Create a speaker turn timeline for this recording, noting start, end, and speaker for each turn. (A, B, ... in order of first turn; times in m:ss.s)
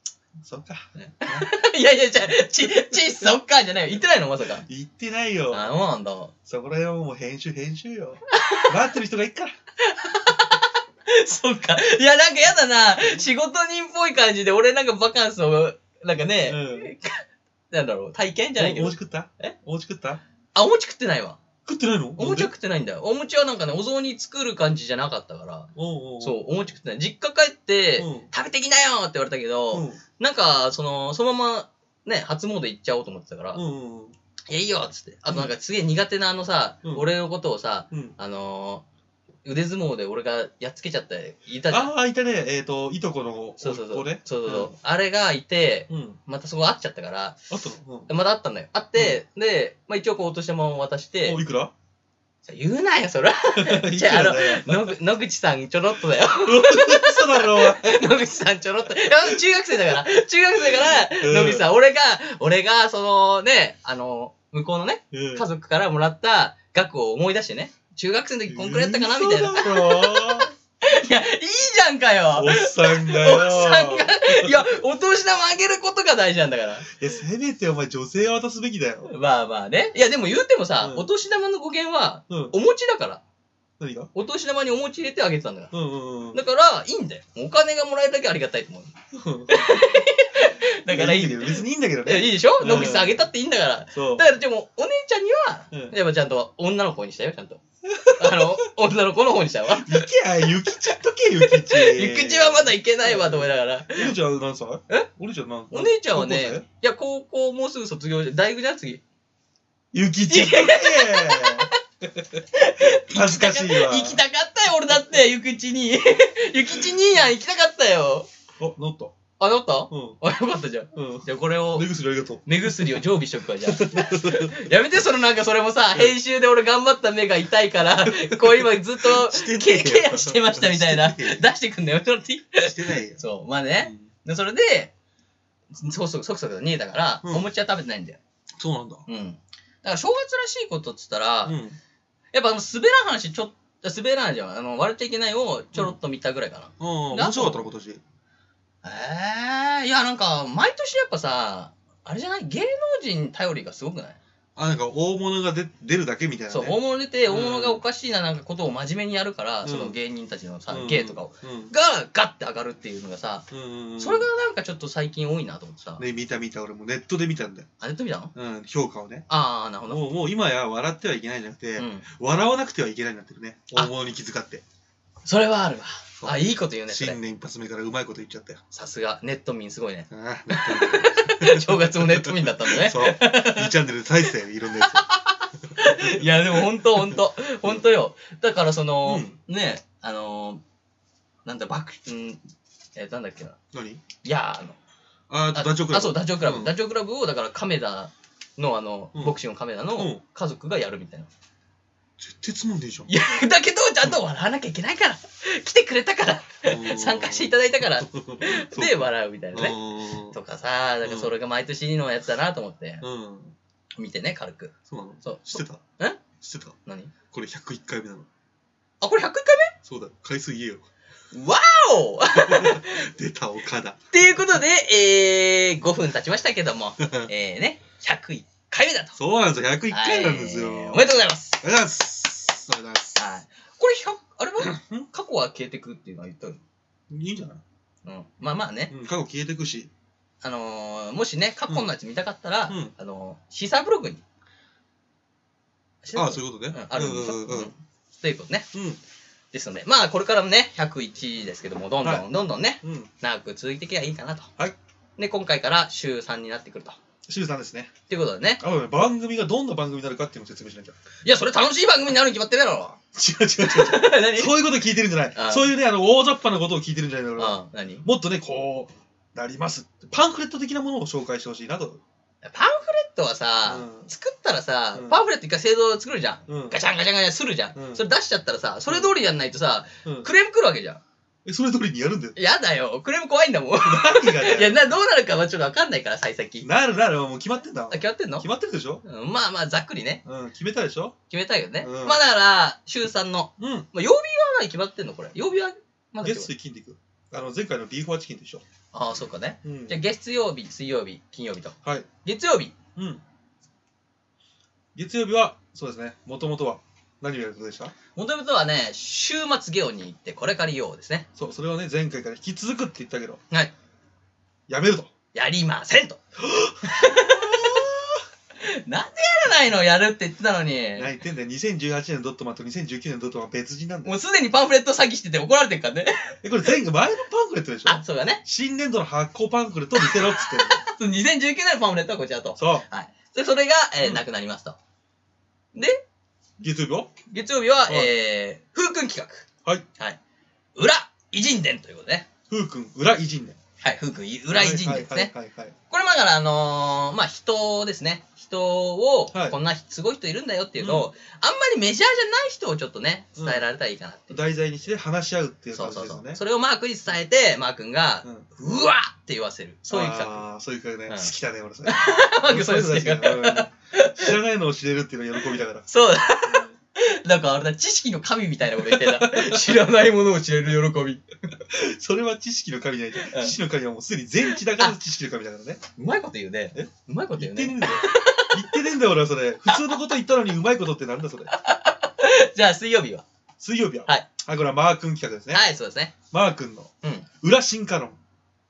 0:00.4-0:01.5 A
0:01.0-0:04.6 B
0:02.9-0:03.3 A
0:04.4-0:05.7 A
0:05.5-0:06.3 B
0:06.4-0:09.5 A
0:08.3-0:08.8 B
0:09.8-0:19.5 B
0:16.4-0:16.9 A
0:18.6-0:20.2 A
0:20.5-0:21.4 B
0:21.6-0:22.5 A
0:22.2-0:33.6 B
0:25.7-0:26.5 A
0:28.0-0:28.3 A
0:29.7-0:30.0 A
0:33.5-0:34.2 A
0:34.5-0:38.8 B
0:36.8-0:37.1 A
0:39.4-0:41.9 B
0:41.7-0:44.7 A
0:43.6-0:47.5 B
0:45.9-0:46.2 A
0:47.5-0:48.1 A
0:48.1-0:51.4 B
0:48.9-0:49.2 A
0:51.2-0:51.7 A
0:52.4-1:16.9 B
0:53.5-0:55.0 A
0:56.2-0:58.0 A
0:59.7-1:00.0 A
1:00.6-1:01.7 A
1:05.1-1:05.5 A
1:08.5-1:10.5 A
1:12.3-1:14.6 A
1:16.9-1:19.1 A
1:19.0-1:23.2 B
1:20.8-1:21.1 A
1:22.3-1:22.6 A
1:23.8-1:24.1 A
1:24.1-1:25.7 B
1:25.7-1:26.4 A
1:26.3-1:28.9 B
1:29.1-1:29.6 A
1:29.5-1:37.6 B
1:30.9-1:33.2 A
1:33.9-1:34.3 A
1:37.8-1:38.6 A
1:38.1-1:44.1 B
1:39.7-1:46.6 A
1:45.7-1:49.0 B
1:49.9-1:54.2 A
1:50.3-1:51.7 B
1:52.5-1:58.3 B
1:58.6-1:59.1 A
1:59.4-2:01.9 B
1:59.9-2:00.2 A
2:00.9-2:03.1 A
2:02.4-2:14.9 B
2:03.6-2:04.7 A
2:08.1-2:11.5 A
2:12.6-2:13.2 A
2:13.8-2:14.1 A
2:15.7-2:18.2 B
2:17.2-2:17.5 A
2:18.6-2:19.0 A
2:19.1-2:21.6 B
2:21.4-2:21.8 A
2:22.3-2:27.7 B
2:26.8-2:28.0 A
2:28.8-2:34.2 B
2:34.6-2:37.8 A
2:36.5-2:46.0 B
2:39.6-2:40.0 A
2:40.7-2:41.7 A
2:43.5-2:44.3 A
2:46.0-2:47.7 A
2:47.8-2:48.3 B
2:48.3-2:49.3 A
2:49.3-2:50.1 B
2:49.8-2:54.6 A
2:51.8-2:52.1 B
2:55.2-2:57.2 B
2:56.2-2:58.6 A
2:58.7-3:03.8 B
3:00.1-3:05.1 A
3:04.8-3:10.6 B
3:05.8-3:07.8 A
3:09.0-3:09.4 A
3:11.4-3:12.4 B
3:12.9-3:13.6 B
3:13.7-3:14.0 A
3:14.2-3:14.8 B
3:15.3-3:16.8 A
3:15.5-3:21.3 B
3:19.1-3:19.4 A
3:19.9-3:20.2 A
3:22.2-3:23.1 A
3:23.1-3:33.0 B
3:26.6-3:30.4 A
3:31.0-3:31.3 A
3:33.0-3:33.5 A
3:34.0-3:36.2 B
3:34.9-3:35.8 A
3:36.4-3:36.8 A
3:36.8-3:37.1 B
3:37.3-3:38.3 A
3:39.0-3:39.7 B
3:39.8-3:40.8 A
3:41.3-3:43.1 B
3:42.3-3:44.0 A
3:44.1-3:49.2 B
3:47.0-3:47.3 A
3:49.2-3:53.2 A
3:49.9-3:51.6 B
3:53.2-3:56.6 B
3:54.6-3:55.1 A
3:57.1-3:57.6 A
3:58.0-3:58.9 B
3:58.9-3:59.9 A
4:00.4-4:04.2 B
4:01.7-4:01.9 A
4:02.7-4:02.9 A
4:06.0-4:08.7 B
4:06.1-4:07.7 A
4:08.7-4:09.0 A
4:09.5-4:14.5 B
4:12.0-4:12.3 A
4:12.8-4:13.1 A
4:15.2-4:17.0 B
4:17.3-4:17.9 A
4:18.1-4:18.6 B
4:18.6-4:21.0 A
4:21.2-4:23.0 B
4:23.1-4:32.0 A
4:23.6-4:24.6 B
4:25.3-4:25.7 B
4:27.4-4:28.1 B
4:32.4-4:41.0 B
4:33.6-4:34.1 A
4:34.9-4:35.2 A
4:36.5-4:36.8 A
4:37.7-4:38.1 A
4:38.9-4:39.1 A
4:40.0-4:40.3 A
4:41.4-4:42.4 A
4:42.4-4:46.7 B
4:43.8-4:44.8 A
4:46.6-4:49.0 A
4:47.9-4:48.5 B
4:49.0-4:50.2 B
4:50.2-4:51.1 A
4:51.3-4:56.5 B
4:51.8-4:52.2 A
4:53.6-4:53.9 A
4:56.2-4:58.6 A
4:58.9-5:02.8 B
4:59.6-5:00.0 A
5:01.8-5:02.1 A
5:03.0-5:03.2 A
5:04.9-5:07.9 A
5:08.1-5:11.3 B
5:11.4-5:13.4 A
5:14.7-5:15.1 A
5:15.3-5:16.2 B
5:16.5-5:18.1 A
5:16.8-5:18.0 B
5:18.6-5:21.1 B
5:21.0-5:24.1 A
5:24.0-5:26.7 B
5:26.4-5:30.8 A
5:27.8-5:28.4 B
5:30.0-5:34.8 B
5:32.6-5:32.8 A
5:36.6-5:37.1 A
5:37.3-5:40.2 B
5:37.9-5:38.1 A
5:40.8-5:42.3 B
5:42.5-5:43.6 A
5:43.8-5:45.3 B
5:44.5-5:45.8 A
5:45.9-5:54.4 B
5:49.3-5:49.6 A
5:50.8-5:51.1 A
5:53.3-5:53.7 A
5:54.3-5:56.4 A
5:55.7-6:00.4 B
5:59.9-6:05.9 A
6:01.1-6:01.3 B
6:01.8-6:04.4 B
6:05.5-6:11.6 B
6:06.4-6:06.8 A
6:08.8-6:09.8 A
6:11.6-6:15.8 A
6:13.2-6:13.6 B
6:14.4-6:15.0 B
6:16.0-6:18.8 B
6:16.7-6:21.5 A
6:19.7-6:20.0 B
6:21.5-6:23.2 B
6:23.6-6:25.6 A
6:25.5-6:26.2 B
6:26.3-6:26.9 A
6:27.0-6:27.3 B
6:27.4-6:28.2 A